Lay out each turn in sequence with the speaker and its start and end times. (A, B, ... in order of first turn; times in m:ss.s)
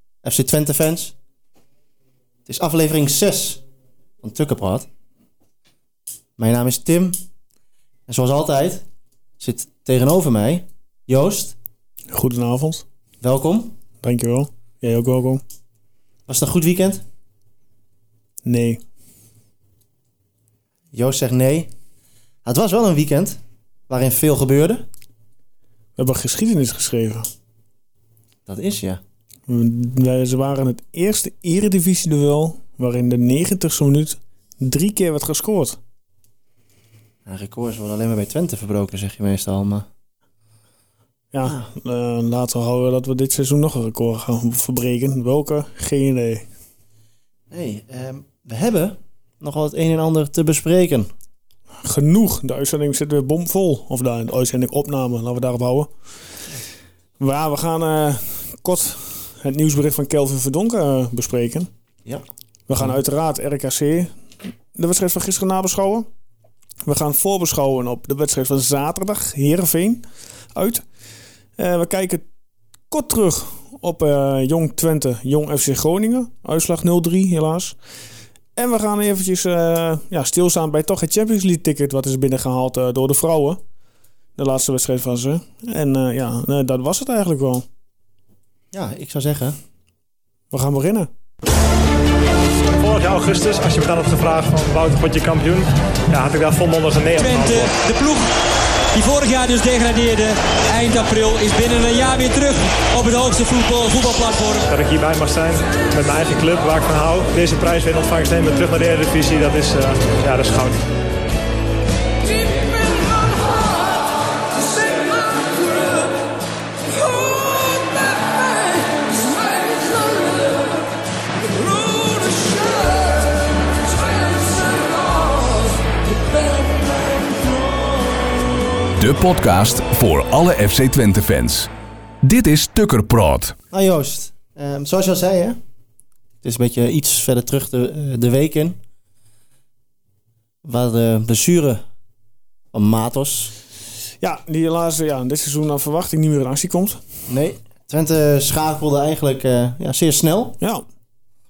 0:00.2-0:01.1 A
0:02.4-0:03.6 A
0:04.2-0:04.9 A
0:06.4-0:07.2 A
0:08.1-0:08.8 A
0:09.4-0:11.6 A
0:12.1-0:12.8 B
0:13.2-0:13.7 A
0:14.0-0:15.4 B
0:16.3-0:17.0 A
0:18.4-0:18.8 B
0:20.9-0:21.7 A
0:22.4-0:24.8 A
0:26.0-0:27.3 B
0:28.4-0:29.0 A
0:29.5-0:35.8 B
0:37.2-0:39.9 A
0:41.3-0:46.5 B
0:41.4-0:41.7 A
0:47.5-0:51.1 A
0:51.8-0:55.9 B
0:57.2-1:01.7 B
1:02.7-1:04.1 B
1:04.7-1:06.1 B
1:06.8-1:10.8 B
1:11.6-1:12.2 B
1:12.9-1:17.8 B
1:18.6-1:23.6 B
1:24.4-1:27.6 B
1:28.7-1:29.6 A
1:30.5-1:31.1 B
1:32.8-1:37.7 C
1:37.2-1:38.3 D
1:38.9-1:44.7 D
1:44.7-1:50.8 C
2:09.0-2:11.7 E
2:12.2-2:13.6 E
2:13.7-2:15.6 A
2:16.4-2:18.8 A
2:20.6-2:21.8 A
2:22.7-2:23.5 A
2:24.2-2:27.0 B
2:27.3-2:30.6 A